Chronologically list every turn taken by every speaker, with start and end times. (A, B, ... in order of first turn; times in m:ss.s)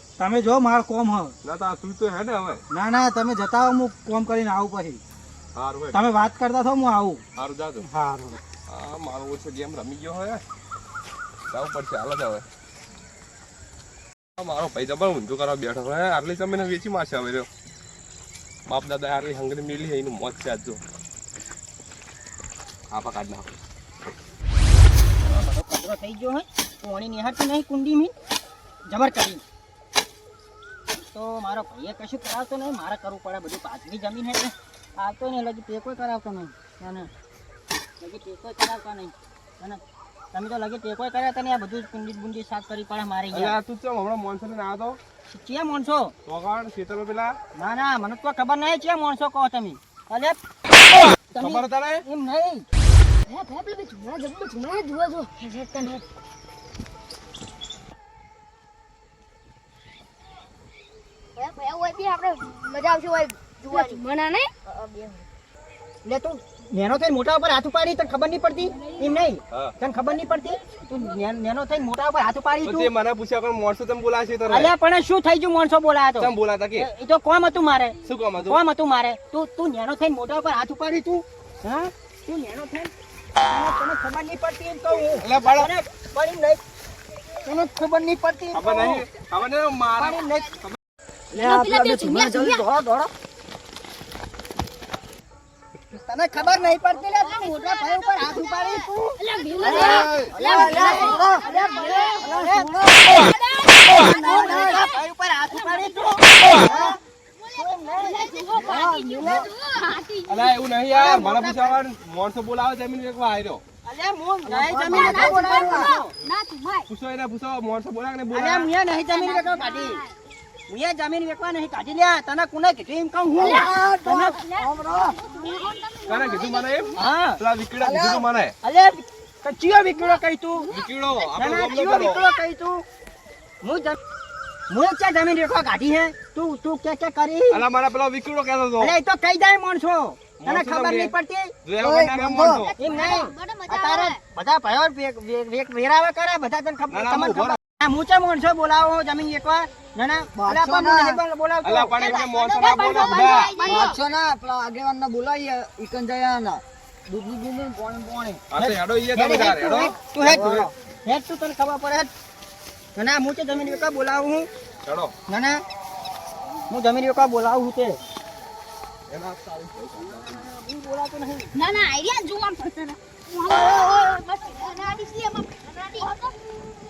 0:00.2-0:01.4 A
0:01.4-0:02.6 B
0:02.7-0:05.0 A
0:05.5-0:06.0 B
0:05.9-0:07.2 A
0:07.4-0:07.9 B
0:07.8-0:08.4 A
0:08.7-0:10.4 B
0:11.5-0:12.4 B
0:14.4-0:17.5 B
0:18.7-0:20.8 B
0:22.9-0:23.5 B
0:25.2-0:28.1 C
0:28.9-0:29.4 C
0:31.0-0:37.1 C
0:38.0-0:39.8 C
0:40.3-0:43.6 C
0:43.3-0:45.0 B
0:45.3-0:46.1 C
0:46.2-0:47.3 B
0:47.5-0:50.4 C
0:51.3-0:52.6 C
0:51.4-0:52.0 B
0:53.3-0:56.0 D
1:01.4-1:05.2 D
1:06.0-1:12.9 C
1:12.6-1:14.7 B
1:14.5-1:22.9 C
1:16.2-1:16.9 B
1:18.0-1:18.6 B
1:23.4-1:26.6 C
1:25.2-1:25.7 B
1:27.4-1:29.0 C
1:28.5-1:30.8 B
1:30.0-1:30.6 C
1:31.3-1:33.1 E
1:31.3-1:32.7 D
1:36.0-1:42.9 C
1:36.4-1:46.6 D
1:39.6-1:41.5 E
1:42.2-1:43.2 E
1:43.8-1:49.5 C
1:47.4-1:50.6 D
1:50.2-1:53.6 B
1:50.9-1:51.8 C
1:53.8-1:56.1 C
1:54.5-1:55.9 E
1:54.8-1:56.9 D
1:56.9-1:58.7 B
1:58.3-2:00.0 C
1:58.9-2:00.1 D
2:00.7-2:04.4 C
2:03.4-2:07.0 D
2:03.4-2:05.2 E
2:06.0-2:08.5 B
2:07.0-2:07.4 C
2:07.8-2:08.3 E
2:08.6-2:10.7 C
2:10.1-2:11.3 D
2:10.7-2:12.2 B
2:11.3-2:12.8 C
2:13.6-2:14.0 C
2:14.7-2:17.6 C
2:17.5-2:18.9 B
2:18.8-2:21.5 C
2:20.4-2:21.1 B
2:21.6-2:22.7 B
2:21.8-2:22.7 E
2:22.6-2:24.2 D
2:22.8-2:32.2 C
2:26.9-2:27.6 B
2:30.4-2:31.2 E
2:31.6-2:33.7 B
2:32.0-2:34.0 D
2:33.6-2:38.4 E
2:38.5-2:40.4 B
2:38.6-2:42.1 C
2:40.2-2:40.7 E
2:42.9-2:44.5 C
2:44.8-2:45.1 B
2:45.3-2:45.6 C
2:46.7-2:48.0 C
2:49.1-2:50.5 B
2:50.0-2:51.6 C
2:51.5-2:56.3 D